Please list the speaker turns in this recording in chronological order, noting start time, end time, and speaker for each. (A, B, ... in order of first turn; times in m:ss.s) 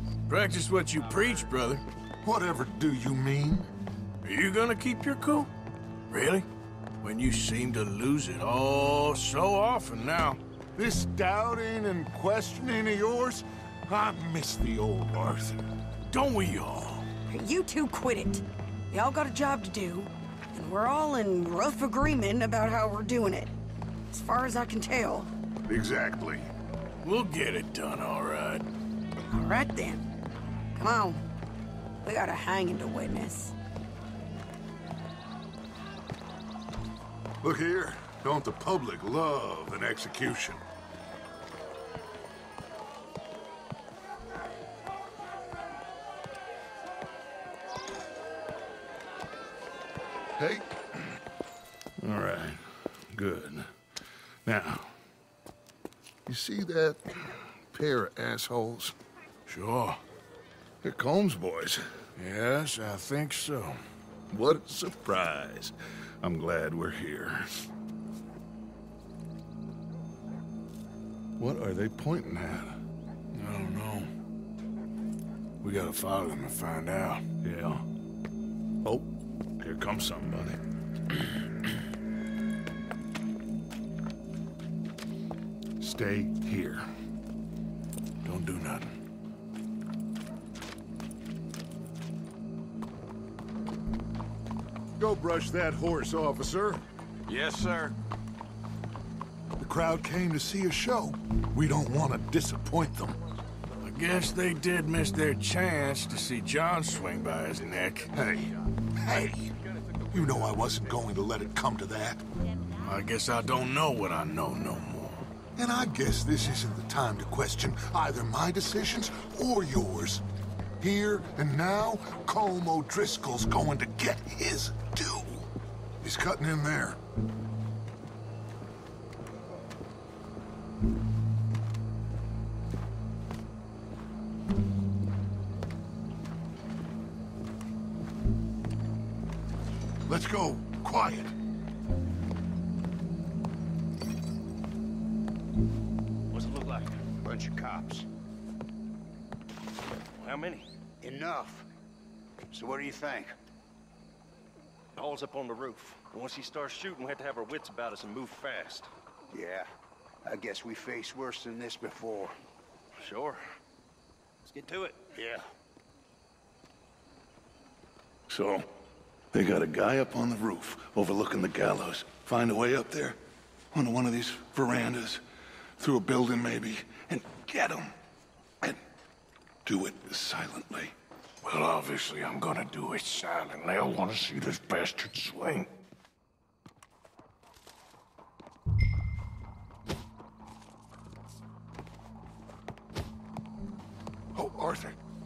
0:00.3-0:01.8 A
0:02.2-0:03.7 B
0:04.2-0:05.5 A
0:06.1-0:06.5 A
0:07.0-0:10.4 A
0:10.8-0:15.6 B
0:16.0-0:17.1 A
0:17.3-0:23.5 C
0:24.1-0:25.3 C
0:25.7-0:26.5 B
0:27.0-0:28.7 A
0:29.3-0:30.0 C
0:30.8-0:31.2 C
0:32.0-0:33.5 C
0:37.4-0:40.6 B
0:50.4-0:51.1 B
0:52.0-0:53.7 B
0:54.5-0:54.9 B
0:56.3-0:59.0 B
0:59.5-1:00.0 A
1:00.8-1:01.8 B
1:02.2-1:03.8 A
1:04.3-1:07.7 B
1:11.4-1:12.8 B
1:13.3-1:14.1 A
1:15.6-1:17.2 A
1:17.4-1:17.8 B
1:18.8-1:20.6 B
1:25.8-1:26.8 B
1:28.2-1:28.9 A
1:35.0-1:36.8 B
1:37.3-1:37.9 A
1:39.6-1:43.2 B
1:43.8-1:48.1 A
1:48.1-1:49.5 B
1:50.1-1:52.2 B
1:52.8-1:55.3 A
1:55.6-2:00.2 B
2:00.8-2:05.5 B
2:06.0-2:07.0 B
2:20.1-2:21.3 B
2:26.3-2:27.1 D
2:27.2-2:28.1 E
2:30.2-2:30.7 D
2:31.0-2:31.6 E
2:32.5-2:33.3 E
2:35.0-2:38.9 D
2:39.3-2:39.7 E
2:40.2-2:42.3 E
2:43.0-2:43.4 D
2:44.5-2:45.0 D
2:45.1-2:45.4 E
2:48.3-2:48.7 B
2:49.3-2:53.2 B
2:53.7-2:55.2 B
2:55.8-2:57.9 B
2:59.6-3:00.9 B
3:01.4-3:05.7 A
3:14.4-3:15.0 B